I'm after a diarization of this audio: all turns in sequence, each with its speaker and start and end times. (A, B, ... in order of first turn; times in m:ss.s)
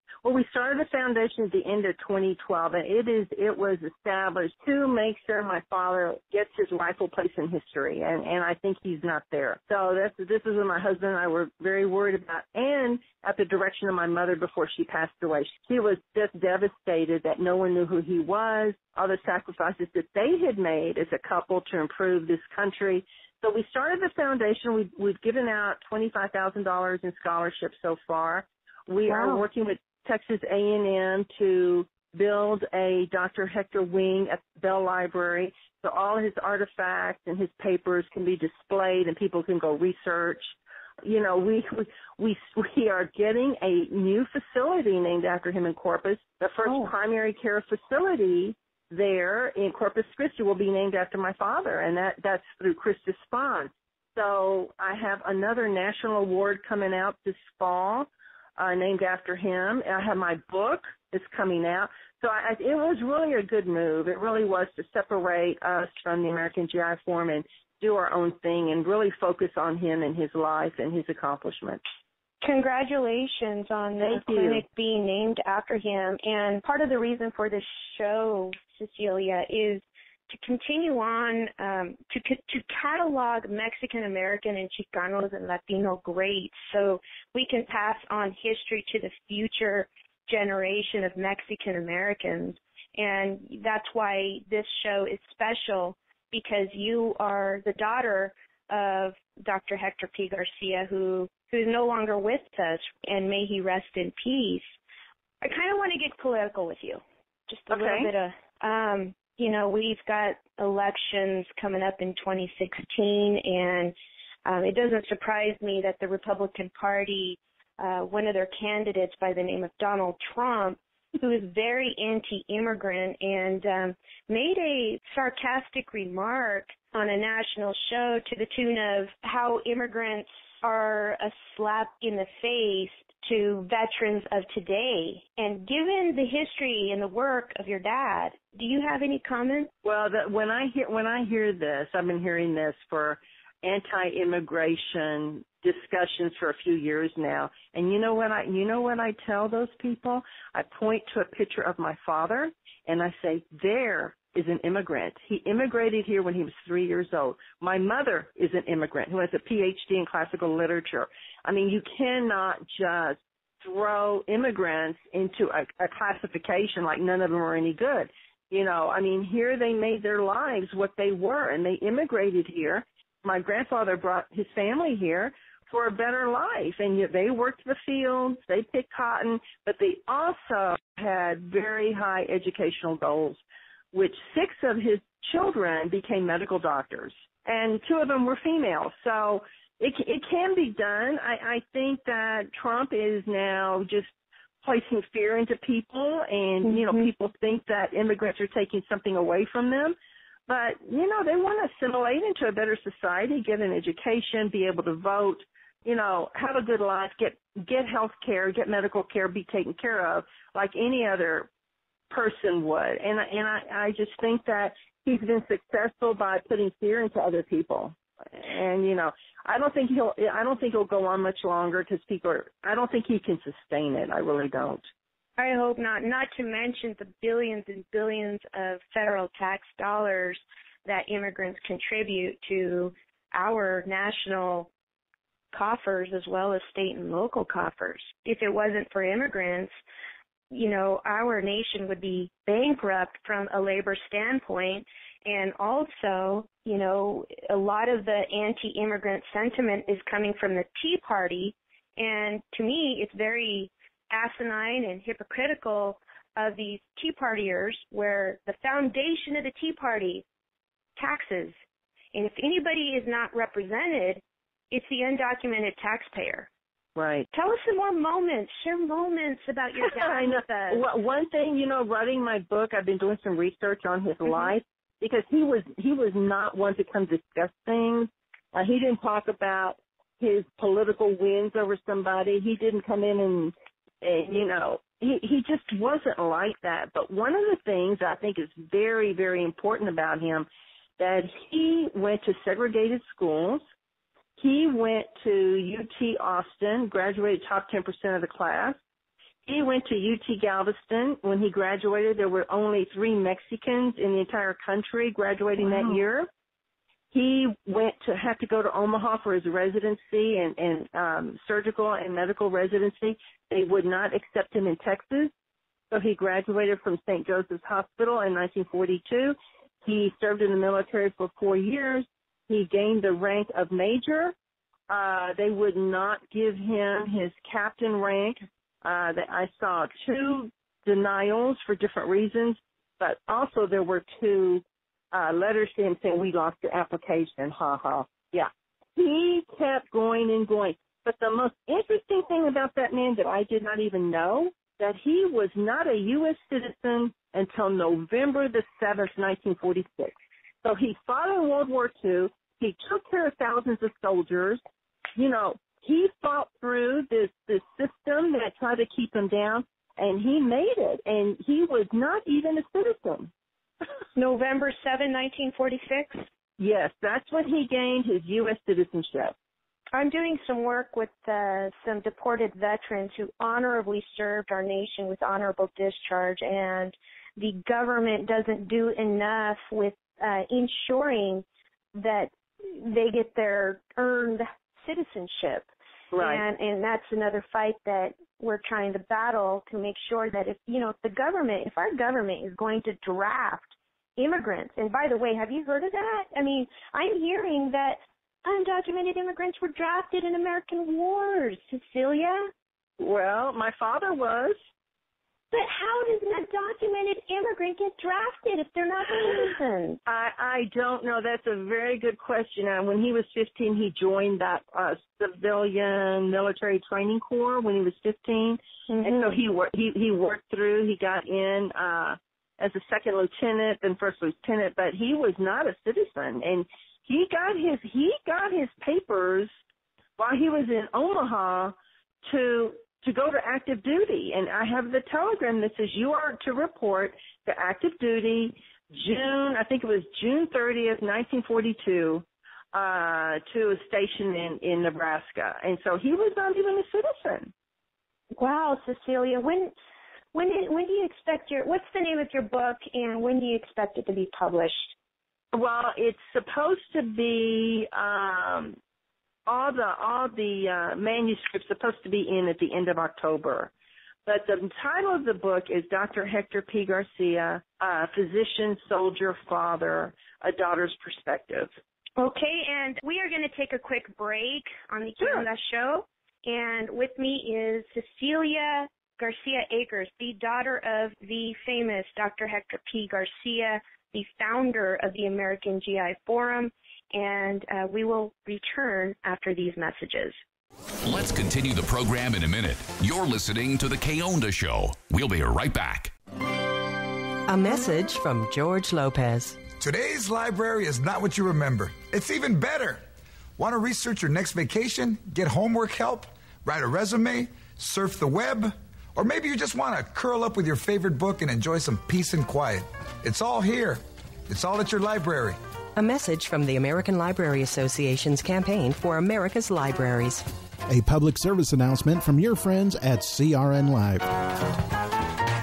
0:00.2-1:11.8 A
0:29.1-0:29.4 B
0:46.6-0:46.9 B
1:12.4-1:44.7 B
1:14.0-1:14.6 A
1:45.4-1:53.9 B
1:47.7-1:48.1 A
1:54.4-2:19.7 B
2:19.8-3:03.4 A
3:03.9-3:14.1 A
3:14.6-3:20.0 A
3:16.6-3:17.0 B
3:20.5-3:31.5 A
3:32.1-3:44.8 A
3:45.4-3:54.7 B
3:55.5-3:59.7 B
4:00.5-4:20.2 B
4:21.0-4:21.6 B
4:22.1-4:26.5 B
4:27.0-4:27.3 A
4:27.3-4:30.8 B
4:30.0-4:50.5 A
4:51.0-4:53.6 A
4:54.4-4:58.8 A
4:59.4-5:06.3 A
5:07.1-5:15.3 A
5:15.9-5:24.3 A
5:24.9-5:54.6 A
5:55.2-6:03.3 A
6:04.2-6:06.2 B
6:06.6-6:09.3 A
6:09.9-6:25.7 B
6:26.1-6:26.4 A
6:26.2-6:42.5 B
6:43.0-6:44.6 A
6:45.5-6:50.0 B
6:50.1-7:09.5 A
6:58.9-6:59.3 B
7:10.2-7:27.5 A
7:28.4-7:29.7 B
7:30.3-7:34.9 B
7:35.5-7:38.8 A
7:39.4-7:43.7 A
7:44.2-7:51.7 A
7:52.2-8:10.4 B
8:11.0-8:16.1 C
8:17.5-8:19.6 D
8:19.8-8:23.0 E
8:23.6-8:35.6 E
8:36.0-8:40.5 D
8:40.9-8:44.3 F